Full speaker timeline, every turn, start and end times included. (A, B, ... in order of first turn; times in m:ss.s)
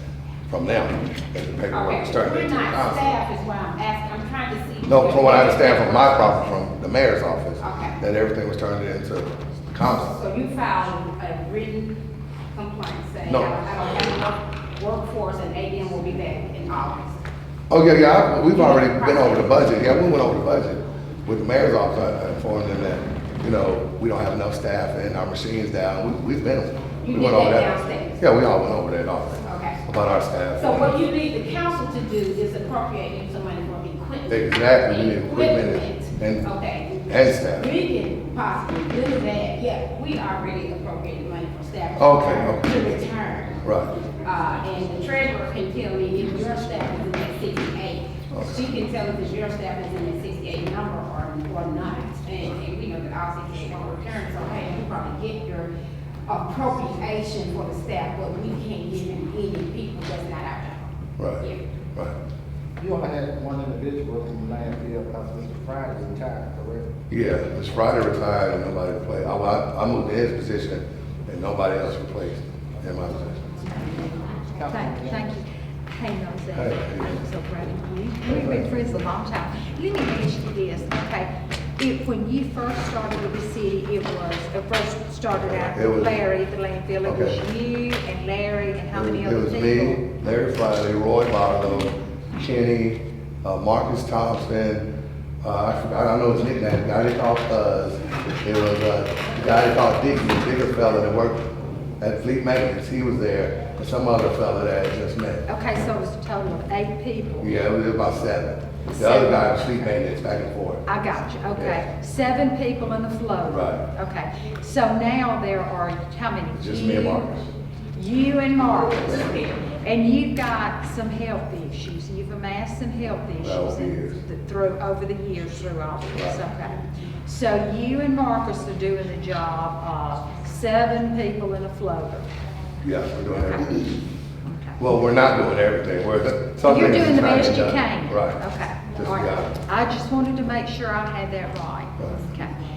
0:00.5-0:03.2 A
0:01.7-0:06.5 B
0:04.8-0:10.1 A
0:07.6-0:08.0 B
0:09.8-0:12.0 B
0:12.5-0:17.2 B
0:13.3-0:13.5 A
0:17.7-0:31.0 A
0:18.5-0:19.8 B
0:27.0-0:28.2 B
0:29.4-0:29.8 B
0:30.6-0:43.6 B
0:34.3-0:36.4 A
0:37.1-0:37.7 A
0:42.0-0:42.7 A
0:43.6-0:43.9 A
0:44.2-0:55.7 B
0:48.3-0:48.6 A
0:56.3-1:00.9 B
1:01.2-1:01.4 A
1:02.8-1:06.9 C
1:07.1-1:13.3 A
1:13.8-1:15.3 C
1:14.7-1:30.0 D
1:16.5-1:17.2 A
1:18.3-1:18.7 A
1:25.4-1:26.1 A
1:27.0-1:27.4 A
1:28.9-1:34.8 A
1:35.4-1:41.4 A
1:42.0-1:45.4 A
1:45.5-1:47.6 D
1:47.4-1:50.8 A
1:48.9-1:49.9 D
1:50.9-1:57.2 D
1:51.6-1:51.8 A
1:53.5-1:53.8 A
1:56.6-1:57.5 A
1:57.9-2:12.2 D
1:59.1-1:59.4 A
2:03.4-2:04.1 A
2:06.1-2:06.4 A
2:12.8-2:14.0 A
2:13.3-2:13.7 D
2:14.5-2:14.8 D
2:14.8-2:18.4 A
2:16.6-2:22.6 D
2:19.0-2:19.6 A